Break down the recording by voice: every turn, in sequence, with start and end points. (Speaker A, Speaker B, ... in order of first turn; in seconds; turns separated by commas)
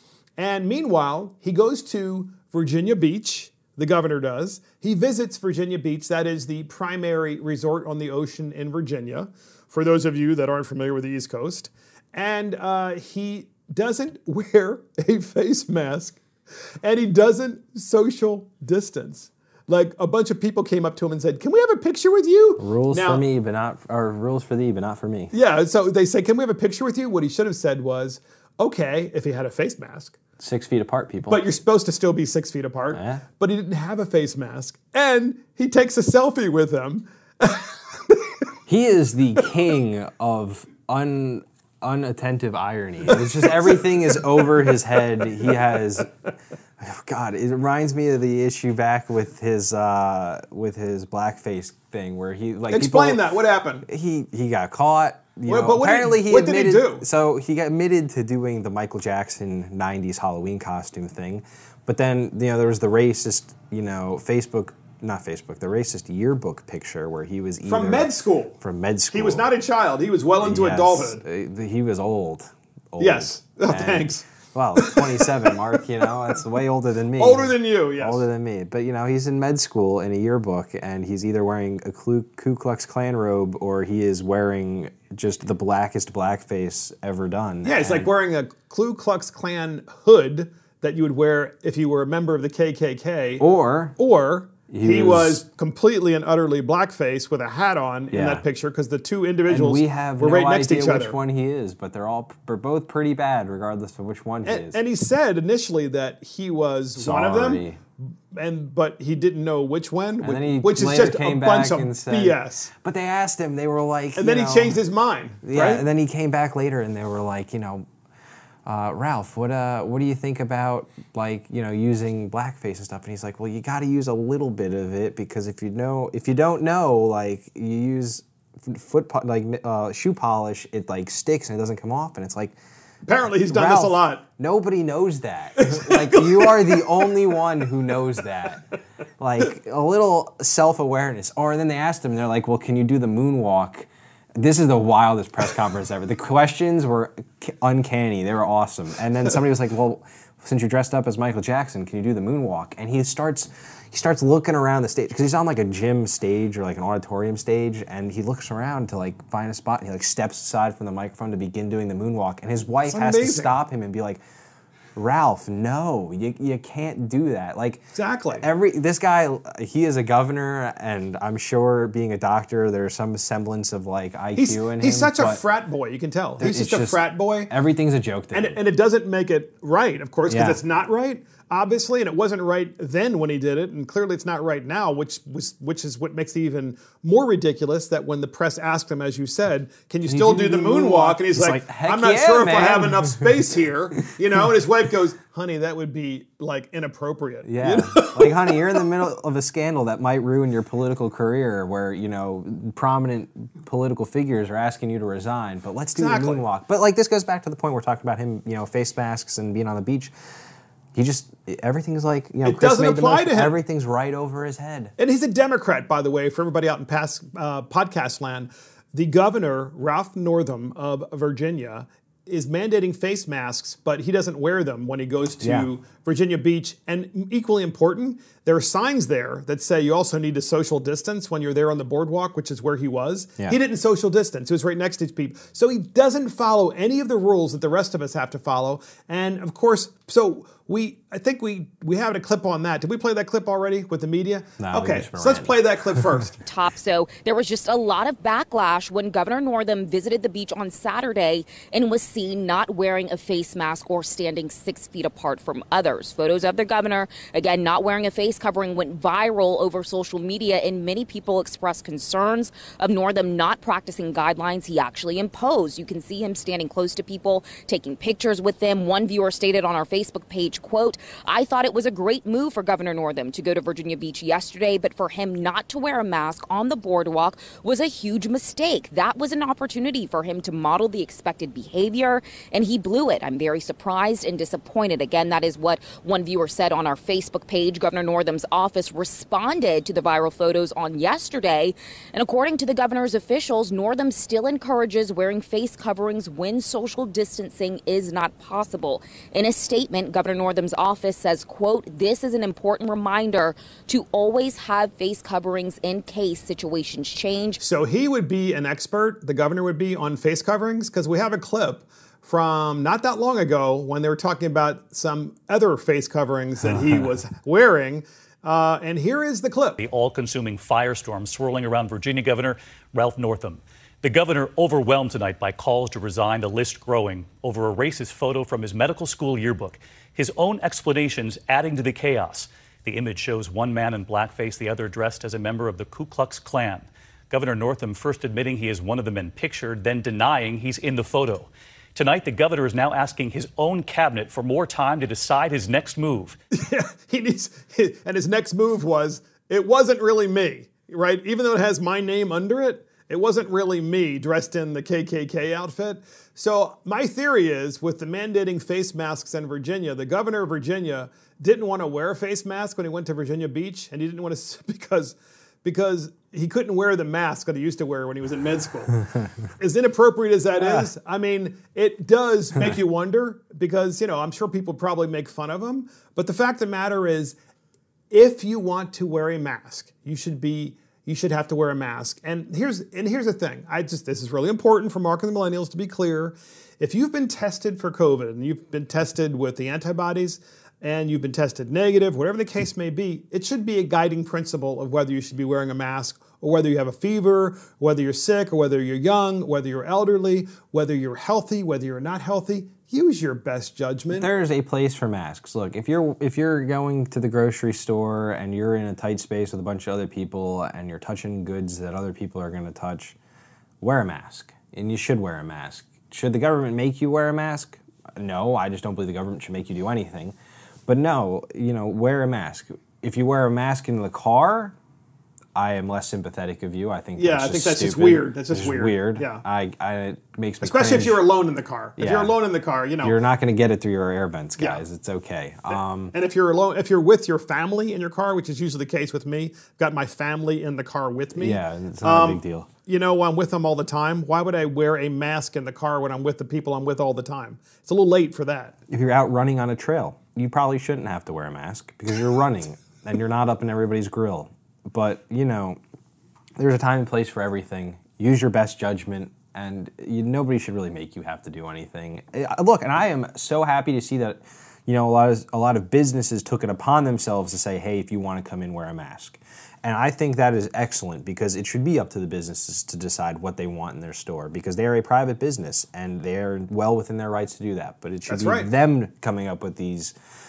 Speaker A: 0.4-16.2, Speaker A: 16.8-23.2, Speaker B: 22.6-25.3, Speaker A: 25.3-30.2, Speaker B: 30.4-31.4, Speaker A: 31.3-38.2, Speaker B: 32.9-33.2, Speaker B: 38.7-46.1, Speaker A: 43.1-43.8, Speaker B: 46.8-53.2, Speaker A: 52.7-53.9, Speaker B: 53.9-68.1, Speaker A: 55.5-57.0, Speaker A: 67.6-68.6, Speaker B: 68.6-69.5, Speaker A: 69.1-71.2, Speaker B: 70.4-88.1, Speaker A: 73.0-74.2, Speaker A: 74.8-75.0, Speaker A: 77.2-78.3, Speaker A: 87.6-93.4, Speaker B: 93.4-94.0, Speaker A: 94.0-101.2, Speaker B: 94.7-95.4, Speaker B: 98.1-98.4, Speaker B: 99.5-104.8, Speaker A: 104.4-107.7, Speaker B: 107.0-107.8, Speaker A: 108.3-112.7, Speaker B: 110.2-114.8, Speaker A: 114.2-115.8, Speaker B: 115.4-117.9, Speaker B: 118.7-132.6, Speaker A: 133.1-134.2, Speaker B: 133.5-138.7, Speaker A: 135.6-137.1, Speaker B: 139.2-164.2, Speaker A: 162.8-163.6, Speaker B: 165.0-167.8, Speaker A: 167.9-168.4, Speaker B: 168.3-175.4, Speaker A: 174.3-177.5, Speaker B: 176.4-178.6, Speaker A: 178.3-198.7, Speaker B: 180.3-180.6, Speaker B: 190.1-193.3, Speaker B: 197.4-210.1, Speaker A: 205.9-206.4, Speaker B: 210.9-214.9, Speaker A: 212.4-213.5, Speaker A: 215.0-246.4, Speaker B: 225.4-225.7, Speaker B: 244.6-246.1, Speaker C: 246.4-307.6, Speaker A: 307.6-319.8, Speaker D: 319.8-346.4, Speaker A: 346.5-369.0, Speaker A: 369.6-377.4, Speaker A: 378.1-404.3, Speaker B: 404.1-413.2, Speaker B: 413.8-420.4, Speaker B: 420.9-424.8, Speaker B: 425.6-431.2, Speaker A: 427.2-429.4, Speaker A: 430.6-433.1, Speaker B: 432.0-432.4, Speaker B: 433.0-436.1, Speaker A: 434.6-434.8, Speaker A: 436.1-448.8, Speaker B: 441.4-442.7, Speaker B: 448.9-455.8, Speaker B: 456.6-480.1, Speaker A: 478.3-478.7